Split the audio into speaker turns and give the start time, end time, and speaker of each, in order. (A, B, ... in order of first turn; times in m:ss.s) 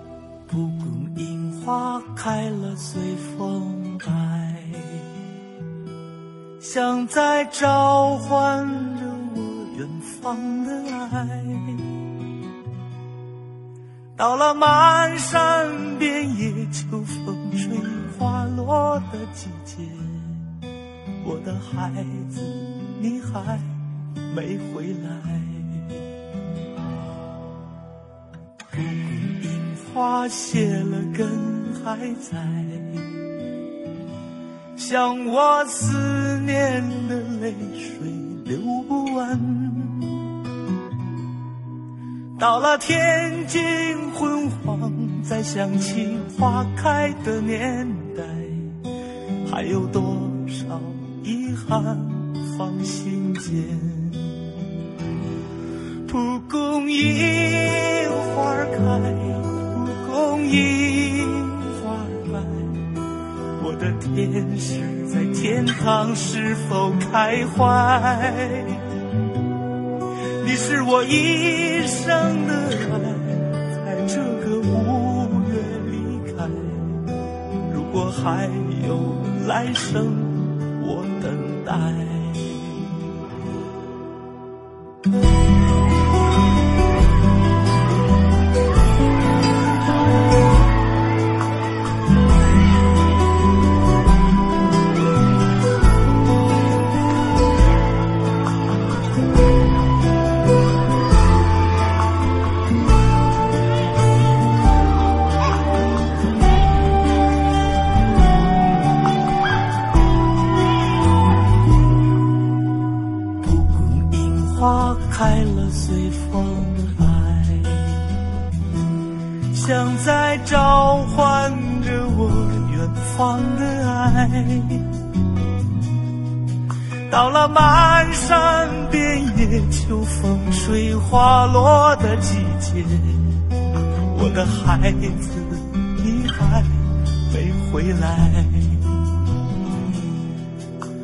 0:00.5-0:05.0 A
0:06.6-0:11.8 A
0:14.2-0:20.4 A
0:21.2-0:23.7 A
0:24.3-0:26.0 A
0:28.7-0:33.1 A
0:34.8-0:40.2 A
0:42.4-0:48.8 A
0:49.5-0:54.4 A
0:56.1-1:02.8 A
1:03.6-1:08.8 A
1:10.4-1:17.0 A
1:17.7-1:22.9 A
1:53.4-1:58.0 A
1:59.5-2:04.9 A
2:07.1-2:13.4 A
2:14.1-2:16.7 A
2:17.3-2:19.0 A